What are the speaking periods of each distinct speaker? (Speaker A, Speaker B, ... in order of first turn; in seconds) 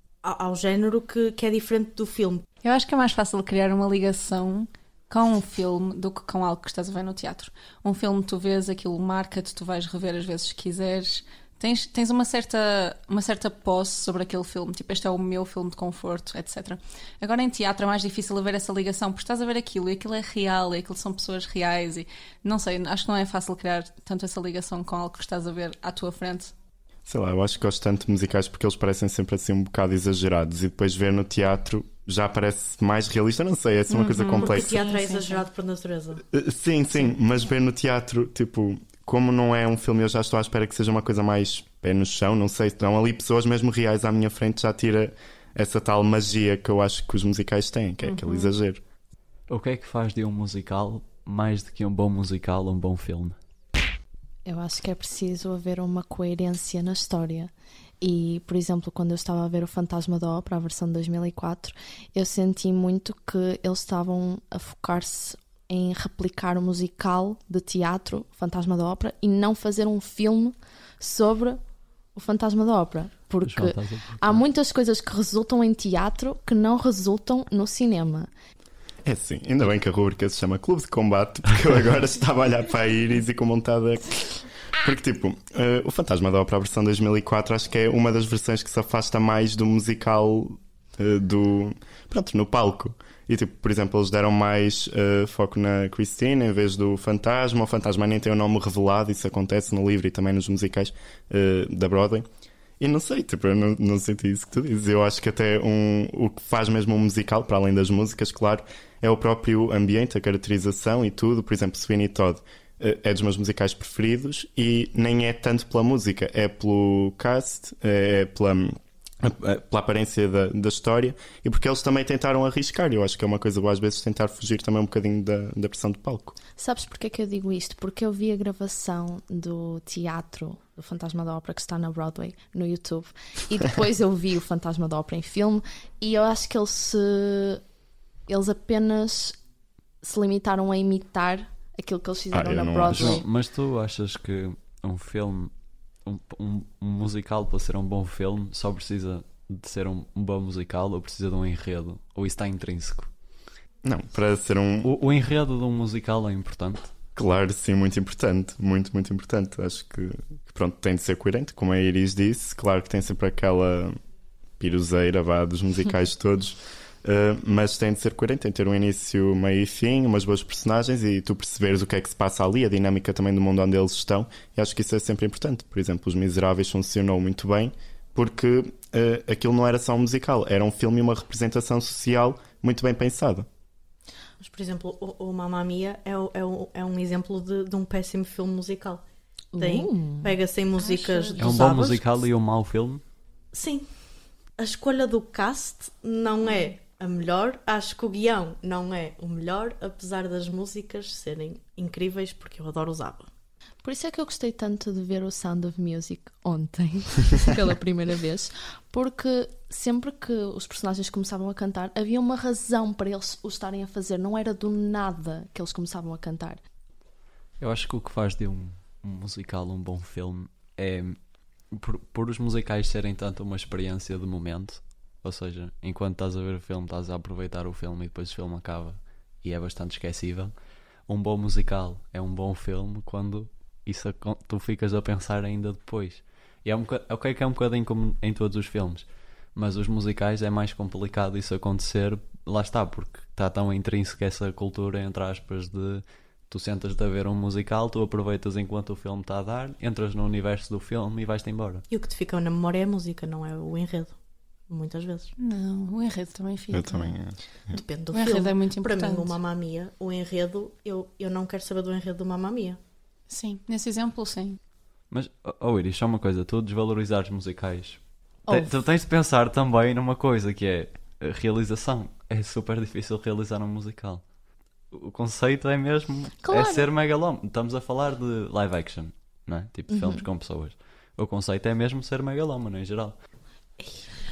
Speaker A: 0.2-2.5, 34.3-36.2, 184.4-189.0, 189.6-192.1, 193.5-193.9, 194.6-203.3, 251.9-254.2, 254.7-255.3, 257.7-262.8, 283.8-284.1
Speaker B: 2.6-26.5, 33.9-35.4, 48.0-48.5, 190.8-191.6, 255.4-257.1, 258.1-259.4, 263.3-264.6
Speaker C: 27.1-34.8, 36.3-48.8, 79.0-102.2, 102.8-126.3, 142.3-143.2, 153.8-154.9, 157.2-164.0, 164.6-183.5, 256.7-257.8
Speaker D: 49.5-53.3, 73.4-74.4, 142.9-145.5, 146.0-153.1, 154.8-156.9, 191.4-193.0, 217.6-230.5, 231.1-251.8, 265.1-274.2, 274.9-283.2
Speaker E: 54.4-71.6, 72.1-78.3, 126.6-137.6, 138.3-139.4, 140.0-143.2, 189.5-190.3, 203.8-216.6, 268.5-268.8, 276.4-276.9, 279.9-280.2